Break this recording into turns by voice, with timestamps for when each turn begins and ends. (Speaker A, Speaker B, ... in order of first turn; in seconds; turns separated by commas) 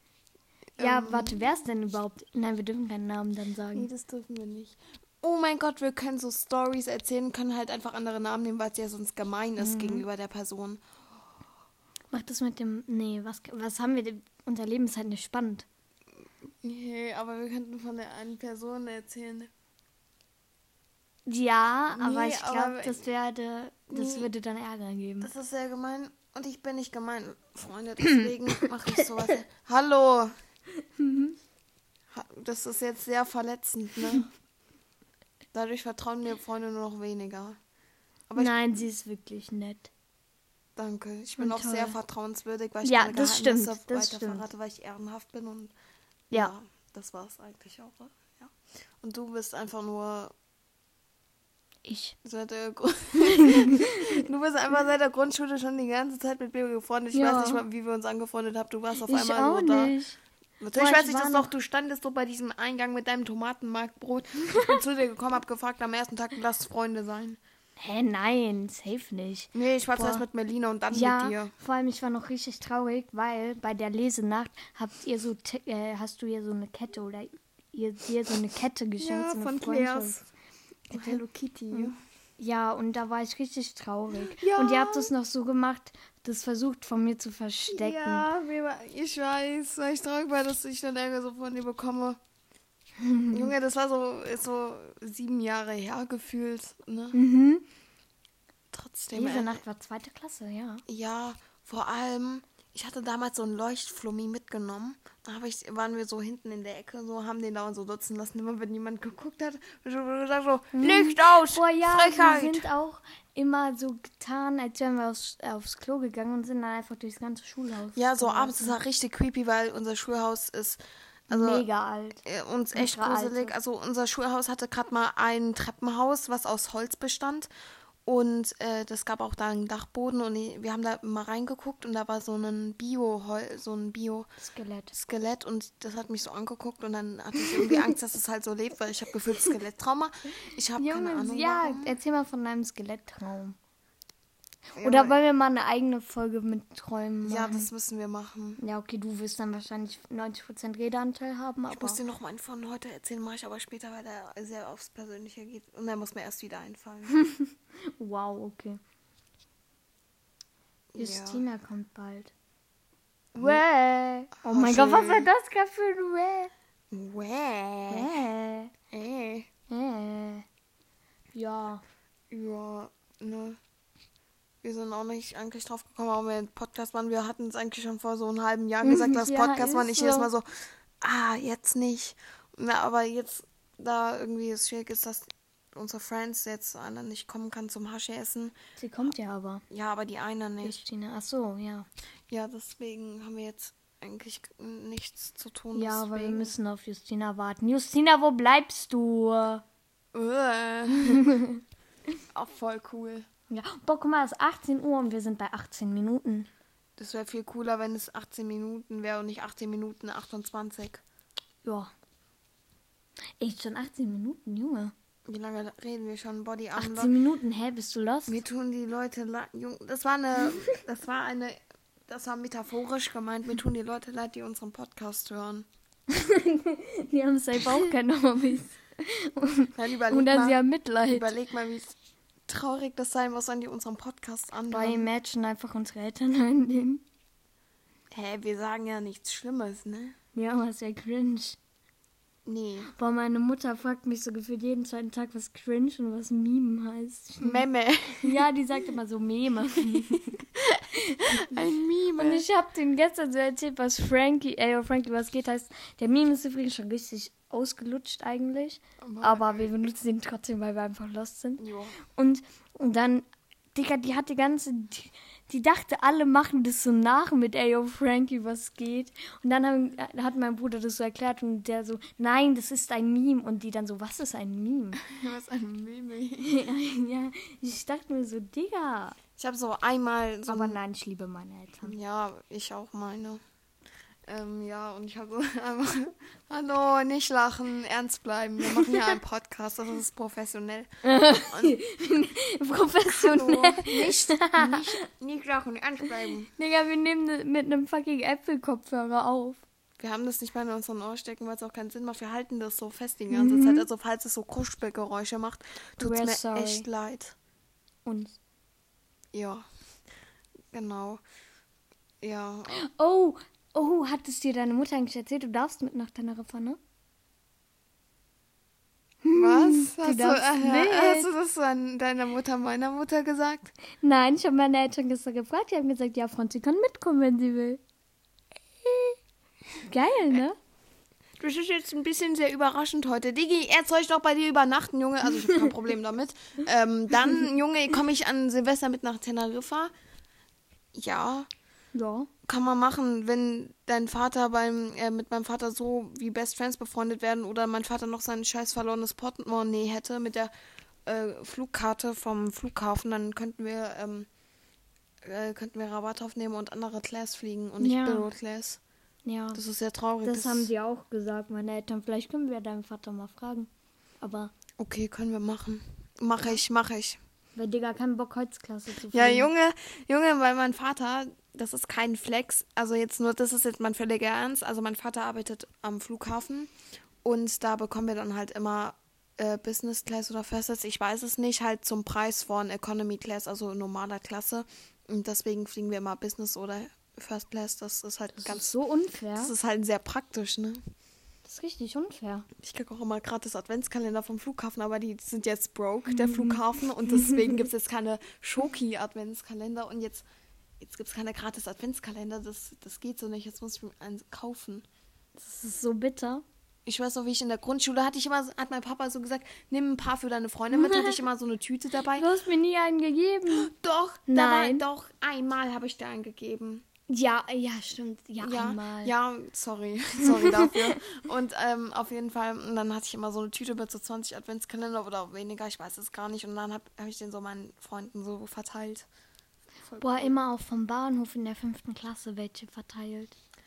Speaker A: 0.8-1.4, Speaker B: 0.8-3.9, Speaker A: 3.7-10.8, Speaker B: 9.6-10.1, Speaker B: 12.1-15.7, Speaker A: 16.6-19.5, Speaker B: 21.3-25.3, Speaker A: 21.9-23.0, Speaker A: 23.9-24.3, Speaker A: 25.2-30.4, Speaker B: 28.1-28.6, Speaker B: 30.8-31.4, Speaker A: 32.1-34.3, Speaker A: 35.5-37.6, Speaker A: 38.3-38.5, Speaker B: 38.4-39.9, Speaker A: 40.8-45.7, Speaker B: 41.4-42.0, Speaker B: 42.8-44.5, Speaker A: 46.3-50.3, Speaker B: 51.9-52.2, Speaker A: 52.2-60.0, Speaker B: 53.2-54.2, Speaker B: 57.1-57.6, Speaker B: 59.1-60.2, Speaker A: 60.6-67.4, Speaker B: 60.7-61.5, Speaker B: 67.8-70.2, Speaker A: 69.5-71.5, Speaker B: 70.9-80.2, Speaker A: 79.0-80.3, Speaker B: 80.9-81.2, Speaker A: 80.9-82.0, Speaker B: 81.7-88.3, Speaker A: 84.3-85.1, Speaker A: 87.7-92.2, Speaker B: 93.0-93.5, Speaker A: 93.3-97.2, Speaker B: 97.1-97.7, Speaker A: 98.7-99.6, Speaker B: 99.1-100.8, Speaker A: 100.9-112.7, Speaker B: 110.7-118.8, Speaker A: 118.0-121.7, Speaker B: 121.3-123.5, Speaker A: 122.2-127.5, Speaker A: 128.1-134.3, Speaker B: 134.4-134.9, Speaker A: 134.9-141.9, Speaker B: 137.5-137.8, Speaker B: 140.8-143.6, Speaker A: 144.8-145.2, Speaker B: 144.8-147.7, Speaker A: 147.2-148.6, Speaker B: 148.6-152.0, Speaker A: 151.7-157.1, Speaker B: 157.2-158.8, Speaker A: 160.9-161.4, Speaker B: 161.0-162.3, Speaker A: 163.4-163.6, Speaker B: 163.4-166.5, Speaker A: 164.4-165.3, Speaker A: 166.9-168.2, Speaker B: 167.9-168.7, Speaker A: 168.9-169.5, Speaker B: 169.7-170.5, Speaker B: 171.3-171.8, Speaker A: 172.3-173.6, Speaker A: 174.6-189.1, Speaker B: 178.8-180.3, Speaker B: 188.8-189.6, Speaker A: 189.7-190.8, Speaker B: 190.6-191.9, Speaker A: 192.3-196.5, Speaker B: 195.7-199.6, Speaker A: 200.1-201.3, Speaker B: 201.0-201.6, Speaker A: 202.3-203.3, Speaker B: 203.5-206.5, Speaker A: 207.0-211.0, Speaker B: 211.6-211.9, Speaker B: 213.4-214.9, Speaker A: 215.3-217.1, Speaker B: 216.8-218.4, Speaker A: 218.3-225.7, Speaker B: 226.1-231.3, Speaker A: 229.7-231.9, Speaker A: 232.5-235.1, Speaker B: 234.7-237.0, Speaker A: 238.1-240.2, Speaker B: 240.3-241.6, Speaker A: 242.5-242.9, Speaker B: 242.9-247.6, Speaker A: 247.4-248.4, Speaker B: 248.2-250.4, Speaker A: 250.6-252.4, Speaker B: 251.0-251.7, Speaker B: 252.2-275.0, Speaker A: 259.0-259.6, Speaker A: 261.6-262.0, Speaker A: 275.0-276.6, Speaker B: 276.4-279.2, Speaker A: 279.4-280.8, Speaker B: 280.5-282.0, Speaker A: 281.8-283.4, Speaker A: 284.3-291.8, Speaker B: 288.7-289.0, Speaker B: 291.1-295.0, Speaker A: 293.1-296.5, Speaker B: 296.6-299.6, Speaker A: 300.0-307.4, Speaker B: 303.3-303.9, Speaker B: 306.0-306.9, Speaker B: 308.1-308.4, Speaker A: 309.3-309.6, Speaker A: 310.7-311.2, Speaker A: 312.2-312.8, Speaker B: 312.7-316.8, Speaker B: 319.2-321.3, Speaker A: 319.3-323.8, Speaker B: 324.0-327.8, Speaker B: 328.8-329.2, Speaker B: 329.8-330.6, Speaker A: 331.4-339.9, Speaker A: 340.9-341.5, Speaker B: 341.9-342.3, Speaker A: 342.4-350.5, Speaker A: 351.1-354.3, Speaker A: 355.2-358.8, Speaker B: 357.8-358.3, Speaker B: 359.2-359.6, Speaker A: 359.5-360.7, Speaker B: 360.2-363.7, Speaker B: 364.2-364.5, Speaker A: 364.8-367.2, Speaker B: 367.6-369.5, Speaker A: 369.1-376.7, Speaker A: 377.2-388.7, Speaker B: 388.4-389.5, Speaker A: 389.4-390.8, Speaker B: 391.5-392.5, Speaker A: 392.6-400.2, Speaker B: 396.1-397.6, Speaker A: 400.8-404.9, Speaker B: 405.4-406.4, Speaker A: 406.9-412.3, Speaker B: 410.7-411.3, Speaker B: 412.2-413.7, Speaker A: 413.5-416.9, Speaker B: 414.3-414.9, Speaker B: 417.1-419.1, Speaker A: 418.4-429.1, Speaker B: 420.2-421.0, Speaker A: 429.8-430.4, Speaker B: 430.0-433.4